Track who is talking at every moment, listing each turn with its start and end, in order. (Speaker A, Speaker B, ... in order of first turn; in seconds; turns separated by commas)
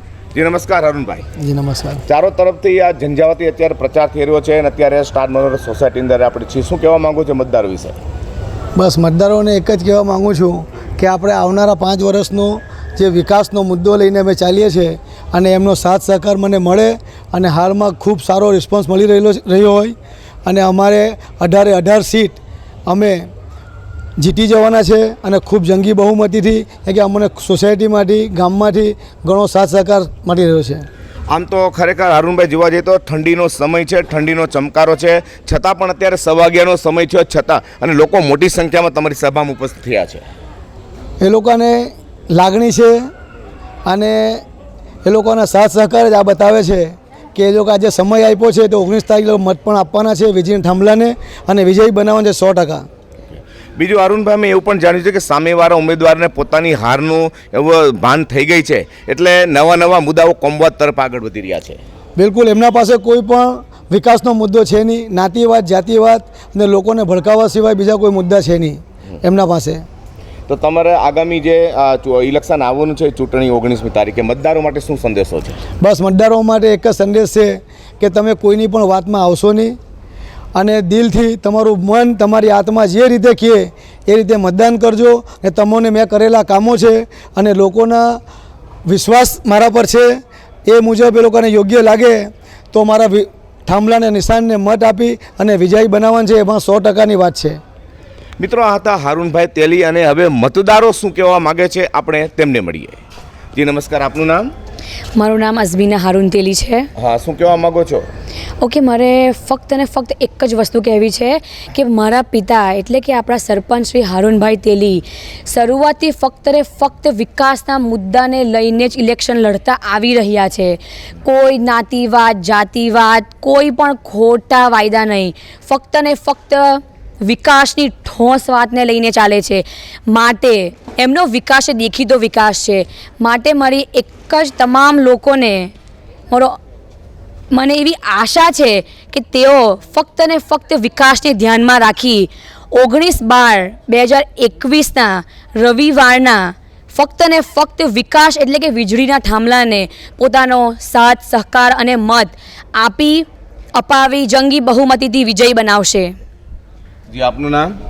Speaker A: 0.3-1.2, Speaker B: 1.4-2.0, Speaker A: 2.1-8.0, Speaker B: 8.8-19.9, Speaker B: 20.4-23.3, Speaker B: 24.2-30.8, Speaker A: 31.3-40.2, Speaker B: 41.2-43.0, Speaker B: 43.9-44.4, Speaker B: 45.0-52.8, Speaker A: 53.3-61.8, Speaker B: 62.2-69.8, Speaker A: 70.5-75.6, Speaker B: 75.8-79.8, Speaker B: 80.5-88.2, Speaker B: 88.9-90.1, Speaker B: 90.7-97.6, Speaker A: 98.4-103.0, Speaker A: 103.5-104.5, Speaker C: 105.3-106.8, Speaker A: 107.0-108.0, Speaker C: 109.2-111.1, Speaker C: 111.8-115.0, Speaker C: 115.5-120.7, Speaker C: 121.2-135.7, Speaker C: 137.6-153.2, Speaker C: 153.8-156.1, Speaker A: 157.1-157.8